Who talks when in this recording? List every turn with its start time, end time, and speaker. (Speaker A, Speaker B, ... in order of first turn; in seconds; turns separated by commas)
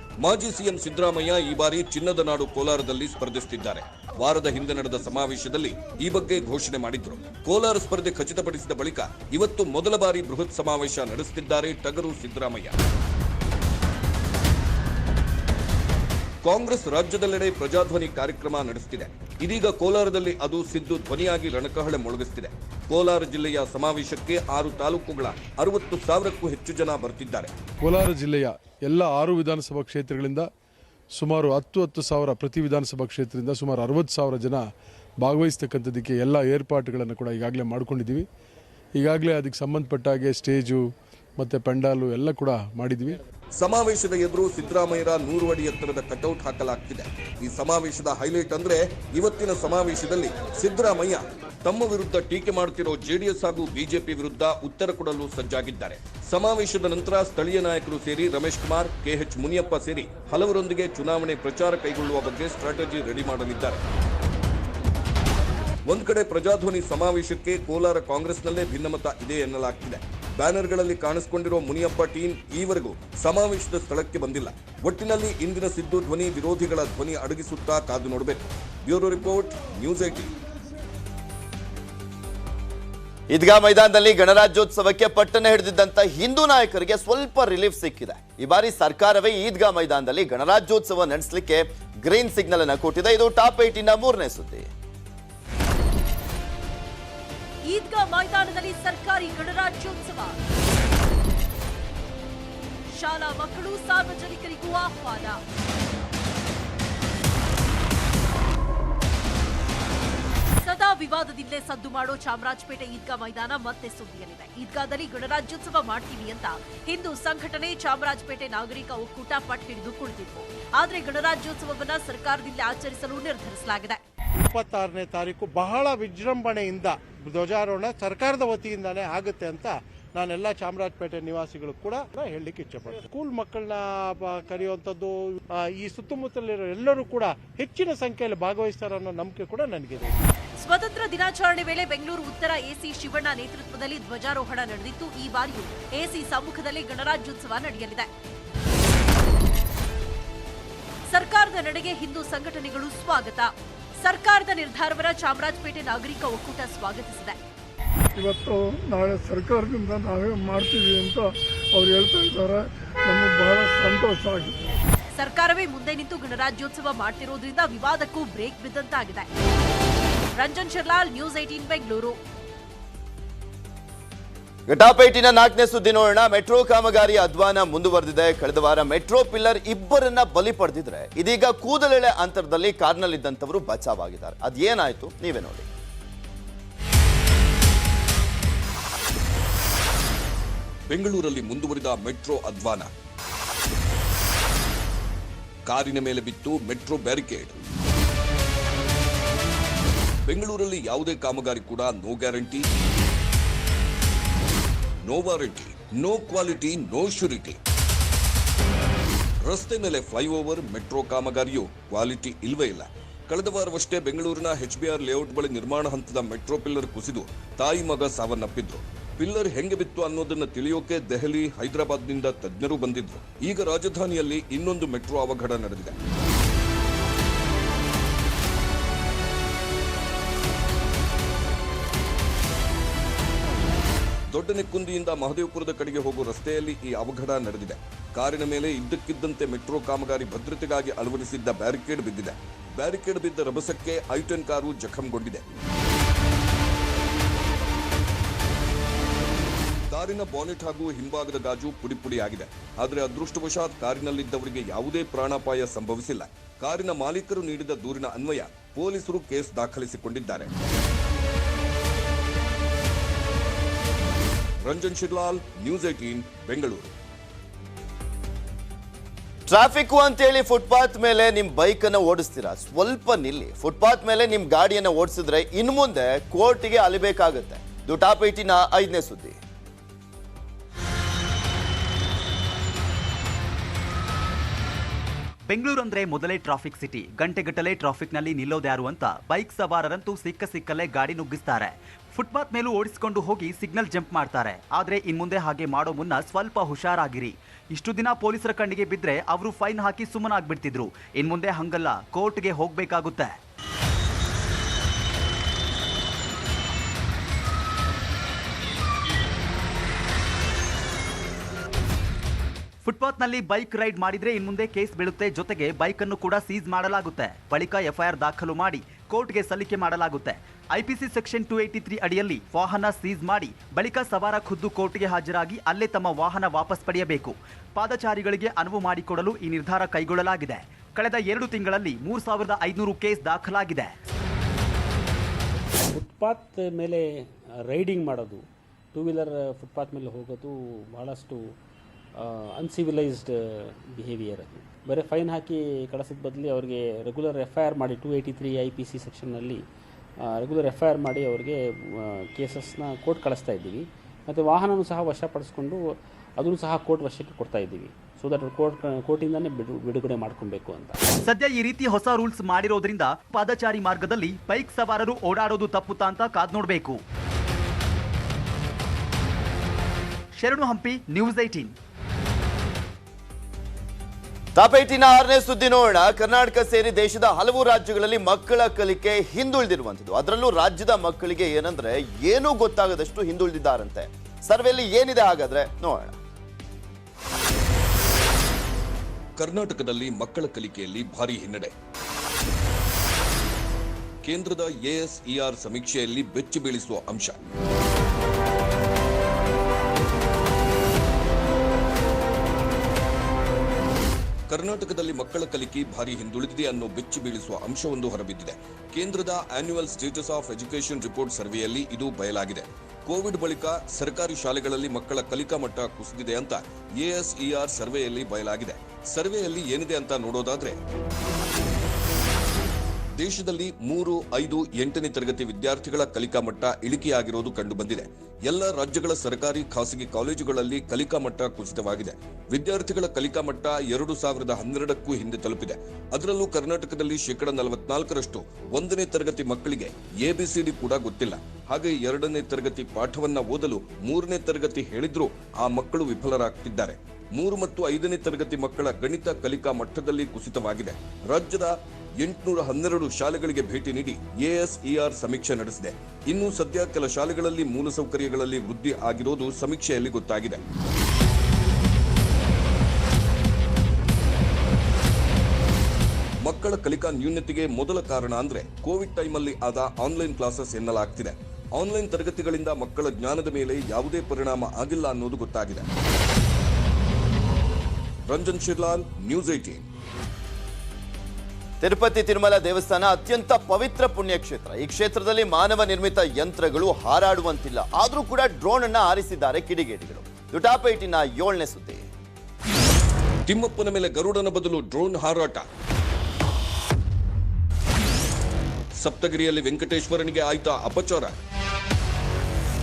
Speaker A: 0.2-12.7, Speaker A: 16.4-27.5, Speaker B: 27.8-30.5, Speaker B: 31.2-34.6, Speaker B: 35.2-38.3, Speaker B: 39.0-40.8, Speaker B: 41.4-43.2, Speaker A: 43.6-63.8, Speaker A: 65.9-80.3, Speaker C: 83.3-94.7, Speaker D: 97.7-100.4, Speaker D: 102.9-105.4, Speaker D: 110.6-124.0, Speaker E: 124.4-140.2, Speaker D: 140.6-148.1, Speaker D: 151.1-157.4, Speaker F: 158.2-164.6, Speaker D: 165.2-169.3, Speaker D: 170.4-172.2, Speaker C: 174.7-185.7, Speaker A: 190.9-192.9, Speaker A: 195.7-197.6, Speaker A: 200.3-202.7, Speaker A: 205.1-207.6, Speaker A: 209.4-226.0, Speaker A: 234.3-245.4, Speaker A: 249.9-260.5, Speaker A: 264.6-266.9, Speaker C: 269.5-279.4, Speaker G: 285.5-303.4, Speaker G: 312.8-334.0, Speaker H: 335.9-341.6, Speaker H: 342.2-349.6, Speaker H: 350.2-361.0, Speaker G: 361.2-367.0, Speaker G: 370.4-371.8, Speaker C: 374.6-386.2, Speaker A: 389.4-391.7, Speaker A: 394.2-397.4, Speaker A: 404.5-420.8, Speaker A: 423.2-460.6, Speaker A: 466.4-475.9, Speaker A: 478.3-479.9, Speaker C: 481.8-492.1, Speaker A: 493.5-495.6, Speaker A: 499.0-501.4